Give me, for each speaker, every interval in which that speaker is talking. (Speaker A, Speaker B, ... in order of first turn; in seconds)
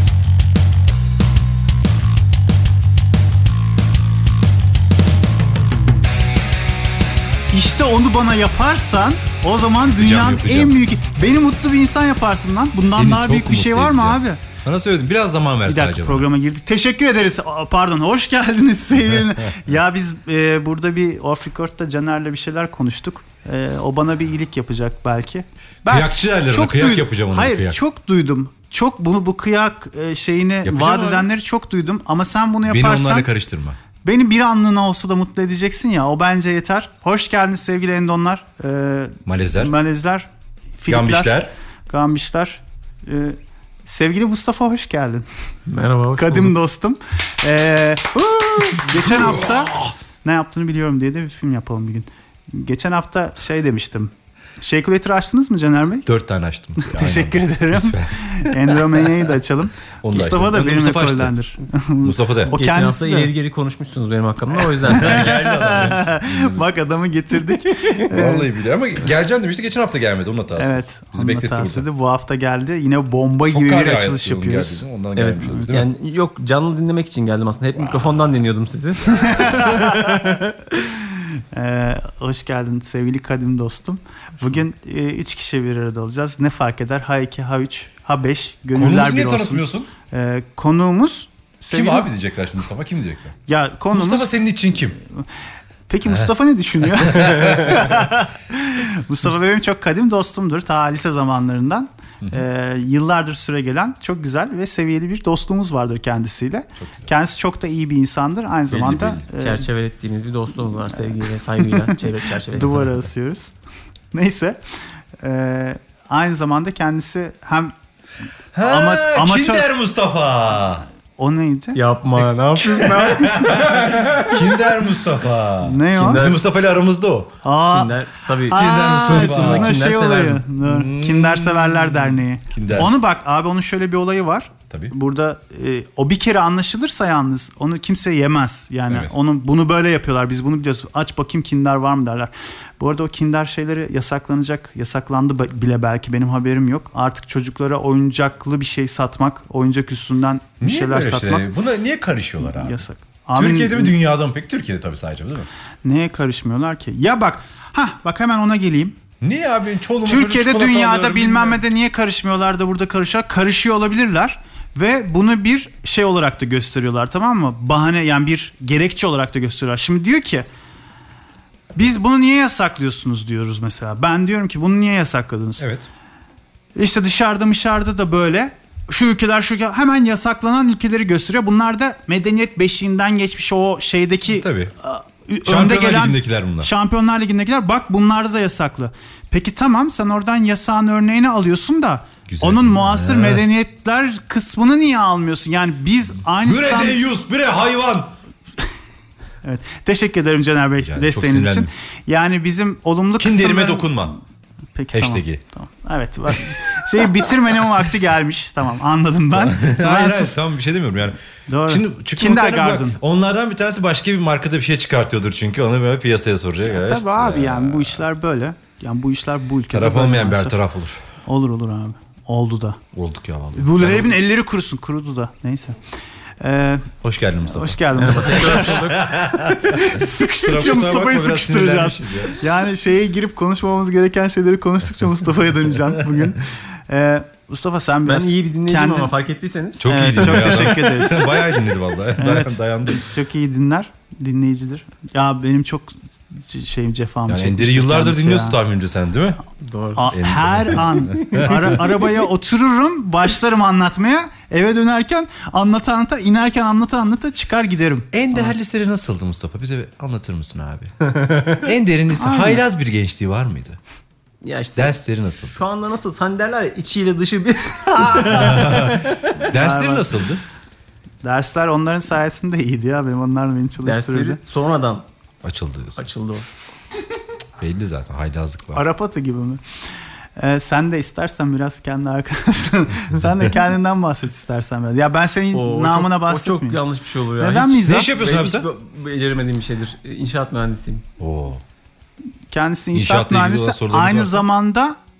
Speaker A: 7.5-14.4, 15.6-33.3, 34.0-45.2, 46.1-56.1, 56.8-63.3, 64.6-68.5, 70.5-74.8, 75.4-75.8, 79.4-80.1, 80.8-92.1, 93.5-94.4, 95.0-95.2, 95.9-109.7, 111.1-112.0, 112.5-113.5, 114.1-114.6, 115.2-117.7, 118.6-119.7, 121.2-121.8, 125.6-126.3, 127.4-151.5, 152.4-154.0, 155.8-158.9, 160.0-170.5, 171.7-175.6, 176.8-197.0, 199.4-204.2, 204.7-210.4, 211.5-213.0, 216.6-220.6, 221.2-222.8, 223.5-225.8, 226.4-226.9, 227.4-228.8, 229.6-239.1, 239.8-241.5, 242.2-248.6, 249.9-258.5, 262.1-262.6, 269.5-270.3, 271.2-274.4, 278.7-279.6, 280.4-286.8, 287.4-288.1, 292.5-295.0
Speaker B: 9.9-10.8, 12.8-16.3, 25.8-27.8, 30.6-31.3, 32.6-33.8, 39.2-39.7, 40.9-41.5, 49.0-49.9, 56.0-59.2, 60.0-61.3, 62.0-62.5, 64.9-66.7, 68.1-71.9, 73.5-75.9, 79.0-79.9, 88.7-89.9, 91.7-93.4, 93.9-95.0, 96.0-96.3, 96.8-98.1, 106.8-107.1, 108.7-109.2, 118.5-120.9, 122.2-127.4, 128.5-129.8, 130.6-132.9, 138.9-139.1, 150.6-152.8, 153.3-155.5, 159.2-161.6, 175.6-175.9, 184.3-184.7, 185.4-186.7, 192.3-193.4, 196.4-198.1, 200.8-201.7, 203.2-204.1, 204.9-205.4, 209.3-218.0, 219.7-221.0, 222.9-224.2, 227.0-232.5, 239.8-243.1, 247.3-249.4, 250.1-251.8, 258.1-263.8, 264.8-265.6, 268.1-270.4, 275.4-276.0, 277.6-278.8, 287.8-288.7, 291.2-291.6, 292.9-294.4
Speaker C: 45.7-46.5, 62.5-65.4, 75.2-80.5, 109.4-113.0, 121.7-124.5, 125.9-126.4, 127.7-130.4, 227.9-229.6, 238.1-240.6, 249.6-250.1, 251.2-251.6, 261.1-261.6, 264.4-269.4, 273.8-275.1, 275.9-276.4, 285.5-291.0